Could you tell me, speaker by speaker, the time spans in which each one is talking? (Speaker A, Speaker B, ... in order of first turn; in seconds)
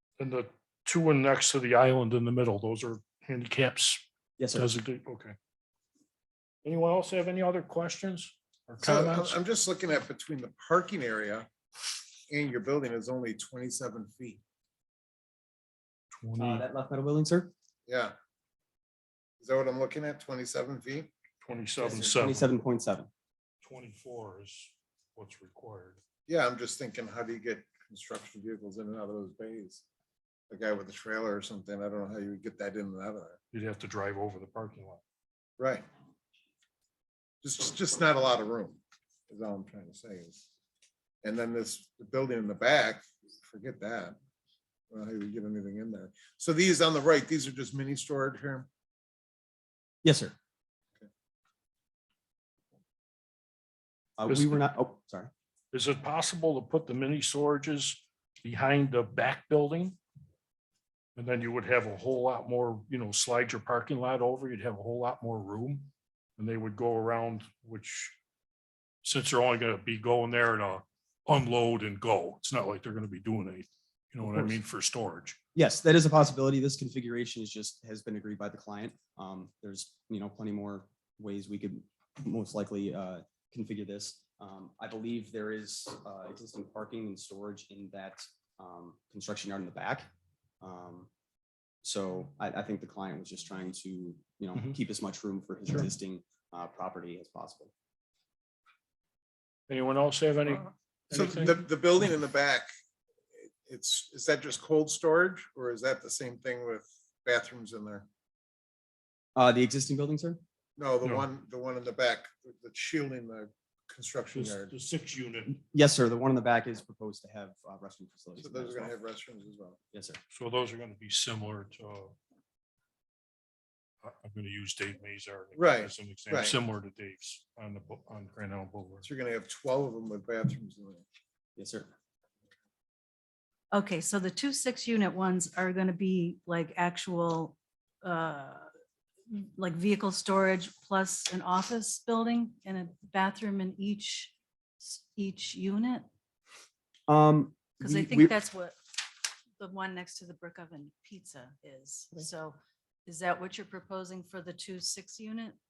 Speaker A: 0.2-5.3, 6.6-9.4, 16.1-16.6, 21.4-22.5, 23.6-26.0, 33.5-35.0, 54.3-54.6, 55.7-60.0, 61.1-68.2, 69.0-75.4, 99.7-101.7, 111.0-111.3, 114.3-115.6, 120.3-122.2, 124.0-129.0
Speaker B: 4.4-4.8, 16.4-17.5, 21.8-23.1, 50.0-50.3, 54.2-55.3, 74.2-74.5, 75.5-90.1, 90.6-91.1, 91.8-97.7, 109.3-110.4, 115.5-118.9, 119.9-120.2, 131.6-131.9, 147.1-148.3
Speaker C: 8.8-11.5, 12.3-14.4, 17.9-18.1, 19.4-21.1, 26.3-29.8, 30.5-33.4, 35.6-35.9, 37.4-40.4, 41.2-44.2, 44.9-48.7, 101.1-102.7, 103.6-108.1, 110.8-114.7, 118.4-119.8, 125.5-126.5, 129.0-131.0
Speaker D: 133.7-138.7, 139.3-146.1, 147.8-148.8, 149.6-155.6